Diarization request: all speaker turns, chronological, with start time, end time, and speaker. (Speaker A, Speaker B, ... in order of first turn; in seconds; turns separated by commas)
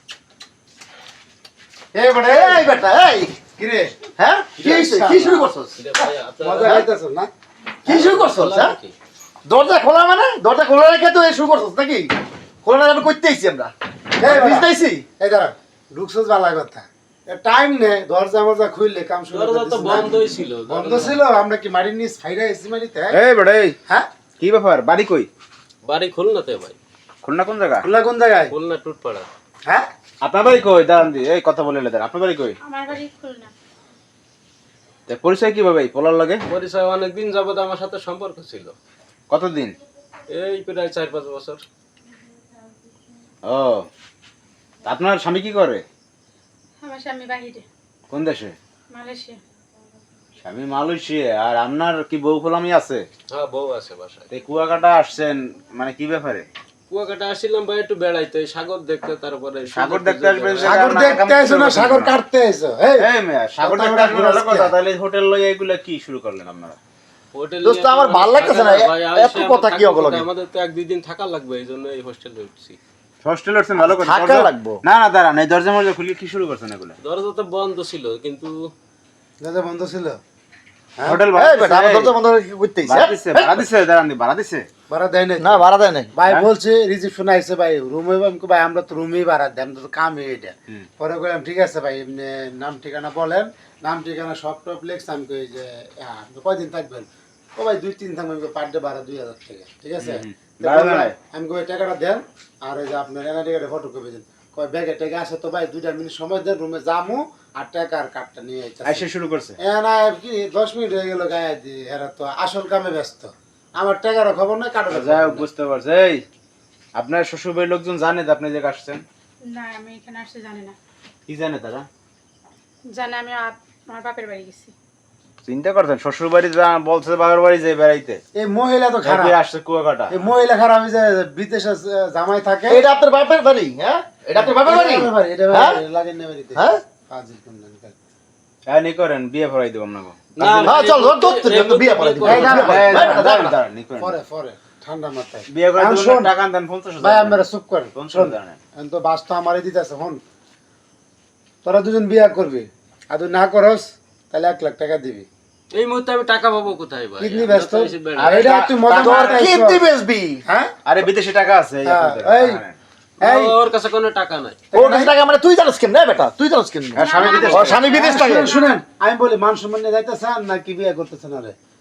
Speaker A: 1.9-2.7, Speaker B: 2.3-3.4, Speaker A: 3.6-4.0, Speaker B: 4.2-5.8, Speaker A: 4.5-5.5, Speaker C: 5.8-6.8, Speaker A: 6.4-7.3, Speaker B: 7.8-8.8, Speaker C: 7.8-8.9, Speaker B: 9.4-12.1, Speaker B: 12.6-13.7, Speaker A: 14.2-20.1, Speaker B: 14.2-15.0, Speaker C: 19.3-21.2, Speaker A: 20.7-23.2, Speaker D: 23.1-23.8, Speaker D: 24.4-25.3, Speaker C: 25.8-26.8, Speaker D: 27.2-27.9, Speaker A: 27.8-28.5, Speaker C: 28.5-29.3, Speaker D: 30.2-32.5, Speaker E: 32.6-33.5, Speaker D: 35.1-36.4, Speaker C: 36.5-38.7, Speaker D: 39.3-39.8, Speaker C: 40.3-41.6, Speaker D: 43.4-43.9, Speaker D: 44.8-45.8, Speaker E: 46.8-47.6, Speaker D: 48.1-48.5, Speaker E: 48.9-49.4, Speaker D: 50.4-53.0, Speaker C: 53.3-54.3, Speaker D: 54.3-56.5, Speaker C: 56.9-60.9, Speaker D: 59.7-62.1, Speaker A: 60.6-64.7, Speaker D: 63.0-66.8, Speaker C: 67.3-72.8, Speaker B: 67.6-70.2, Speaker D: 73.2-77.0, Speaker B: 73.8-74.8, Speaker C: 77.0-78.5, Speaker A: 79.4-80.2, Speaker A: 81.0-81.2, Speaker D: 81.0-82.1, Speaker B: 81.3-83.6, Speaker D: 82.8-84.7, Speaker A: 84.9-109.1, Speaker B: 85.4-86.1, Speaker D: 100.0-101.2, Speaker D: 108.8-109.6, Speaker A: 109.6-115.5, Speaker D: 114.9-116.2, Speaker D: 116.9-119.0, Speaker E: 119.4-120.8, Speaker D: 121.3-121.9, Speaker E: 122.9-124.7, Speaker D: 125.4-128.2, Speaker A: 128.3-129.4, Speaker D: 129.0-130.2, Speaker A: 130.1-132.8, Speaker B: 132.7-135.8, Speaker A: 134.3-137.9, Speaker B: 136.5-136.8, Speaker D: 138.7-140.9, Speaker C: 140.4-142.8, Speaker B: 140.6-143.5, Speaker A: 142.2-146.3, Speaker D: 142.5-144.2, Speaker D: 145.5-147.4, Speaker A: 147.0-150.2, Speaker D: 147.9-148.6, Speaker A: 151.6-155.3, Speaker C: 155.7-158.5, Speaker A: 157.2-159.8, Speaker D: 158.2-159.5, Speaker B: 158.9-160.4, Speaker A: 160.4-160.7, Speaker D: 160.8-162.8, Speaker A: 161.8-162.6, Speaker A: 163.2-163.5, Speaker C: 163.2-164.6, Speaker A: 164.7-165.1, Speaker B: 164.7-168.5, Speaker D: 166.9-167.8, Speaker E: 166.9-168.8, Speaker A: 167.3-171.5